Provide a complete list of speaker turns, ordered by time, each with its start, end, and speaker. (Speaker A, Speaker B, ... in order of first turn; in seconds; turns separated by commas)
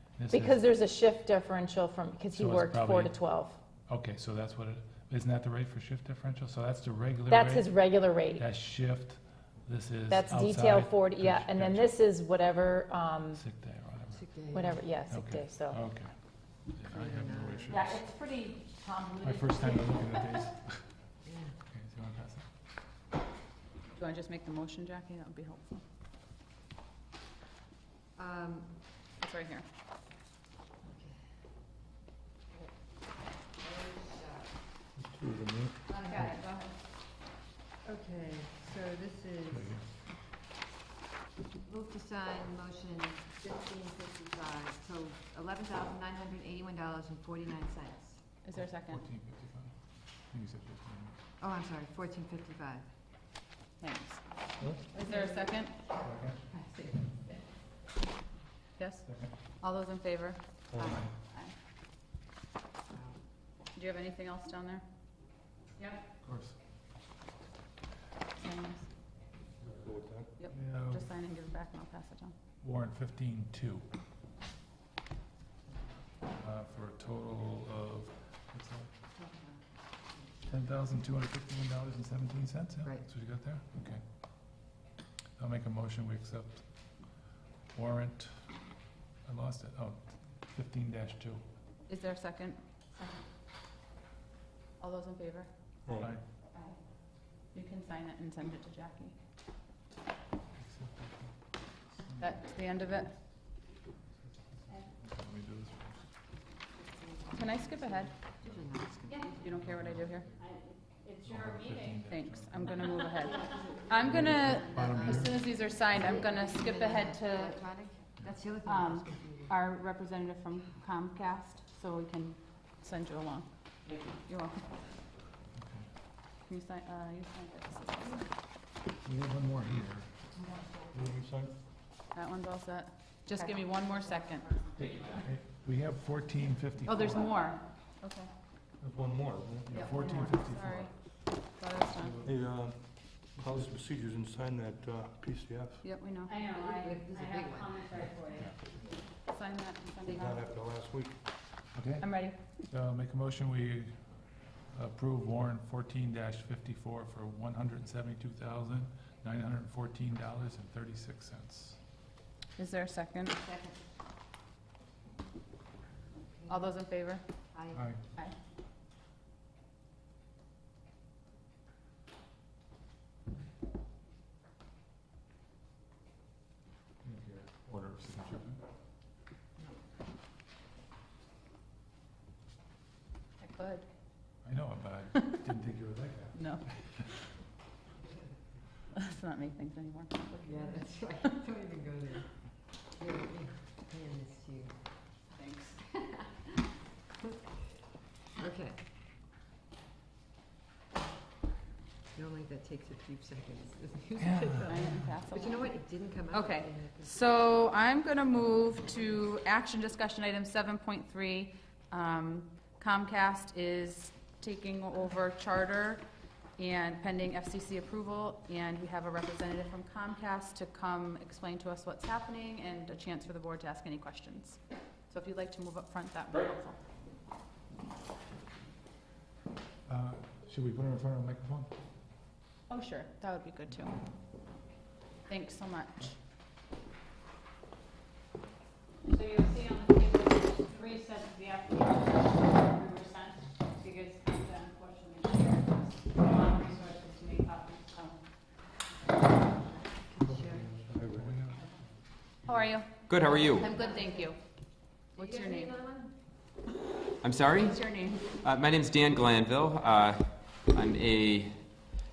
Speaker A: 0.2-0.6, Speaker B: 0.3-3.6, Speaker A: 2.3-3.2, Speaker A: 3.9-7.8, Speaker B: 7.3-8.4, Speaker A: 8.4-11.9, Speaker B: 10.1-13.4, Speaker A: 13.4-14.2, Speaker C: 14.2-14.7, Speaker B: 14.5-15.8, Speaker A: 15.1-16.1, Speaker A: 16.7-18.0, Speaker C: 16.9-17.8, Speaker B: 17.7-20.0, Speaker A: 19.2-20.8, Speaker C: 21.2-21.5, Speaker A: 21.7-22.5, Speaker D: 23.9-25.8, Speaker C: 28.2-28.7, Speaker D: 29.2-29.6, Speaker C: 33.6-34.5, Speaker E: 35.0-35.8, Speaker C: 35.9-36.8, Speaker C: 37.8-39.8, Speaker A: 39.5-39.8, Speaker C: 41.7-48.2, Speaker D: 48.4-49.0, Speaker A: 48.9-49.7, Speaker A: 50.3-51.1, Speaker C: 51.4-52.9, Speaker D: 53.8-54.3, Speaker E: 54.6-54.9, Speaker D: 54.9-55.8, Speaker A: 56.0-56.5, Speaker C: 56.6-56.9, Speaker D: 58.8-61.5, Speaker E: 60.7-61.0, Speaker A: 60.8-61.1, Speaker D: 63.7-64.8, Speaker A: 66.2-66.5, Speaker D: 68.4-68.9, Speaker E: 69.6-70.3, Speaker D: 70.4-72.3, Speaker A: 70.5-71.0, Speaker A: 72.6-73.9, Speaker A: 76.3-78.9, Speaker A: 80.5-84.0, Speaker A: 85.4-86.9, Speaker A: 87.7-88.5, Speaker A: 89.2-91.4, Speaker D: 91.9-92.6, Speaker D: 94.8-95.5, Speaker E: 95.9-96.1, Speaker D: 97.5-99.2, Speaker A: 100.6-101.3, Speaker A: 102.0-102.3, Speaker D: 102.2-103.2, Speaker A: 105.0-106.1, Speaker C: 106.8-107.4, Speaker D: 107.3-108.2, Speaker C: 107.9-109.3, Speaker A: 108.4-110.3, Speaker D: 109.3-110.3, Speaker F: 110.5-112.0, Speaker A: 111.2-112.9, Speaker D: 112.0-117.6, Speaker A: 114.0-115.4, Speaker C: 114.8-115.3, Speaker C: 116.6-119.5, Speaker D: 118.6-123.5, Speaker D: 124.1-124.8, Speaker A: 125.6-125.8, Speaker D: 126.5-128.3, Speaker A: 129.0-130.1, Speaker E: 130.9-131.6, Speaker D: 132.1-134.6, Speaker A: 134.9-137.3, Speaker D: 136.9-138.3, Speaker E: 138.8-139.8, Speaker A: 139.7-140.9, Speaker D: 139.8-142.2, Speaker E: 142.2-145.8, Speaker D: 145.8-146.4, Speaker F: 146.3-148.5, Speaker C: 146.4-148.1, Speaker D: 149.3-150.4, Speaker E: 150.1-151.2, Speaker A: 151.7-152.1, Speaker D: 152.0-152.4, Speaker A: 152.7-161.8, Speaker D: 162.6-163.4, Speaker C: 163.4-163.8, Speaker C: 166.3-166.7, Speaker D: 166.5-167.2, Speaker C: 167.5-168.0, Speaker A: 167.7-168.0, Speaker A: 177.0-178.6, Speaker D: 183.4-183.9, Speaker A: 184.4-187.1, Speaker D: 186.4-186.6, Speaker D: 188.9-191.3, Speaker C: 190.5-192.3, Speaker C: 193.0-194.8, Speaker D: 195.3-195.9, Speaker C: 198.4-198.8, Speaker C: 202.2-207.1, Speaker A: 204.2-205.1, Speaker D: 204.6-216.0, Speaker D: 216.6-224.6, Speaker D: 225.1-226.8, Speaker A: 229.9-231.7, Speaker D: 232.7-234.0, Speaker D: 235.3-236.2, Speaker F: 239.1-248.2, Speaker C: 250.0-250.7, Speaker A: 250.2-251.7, Speaker E: 250.8-251.4, Speaker D: 252.5-254.4, Speaker G: 253.1-253.8, Speaker C: 253.7-254.3, Speaker D: 255.0-255.8, Speaker C: 255.2-256.1, Speaker G: 257.2-261.7, Speaker D: 257.5-258.3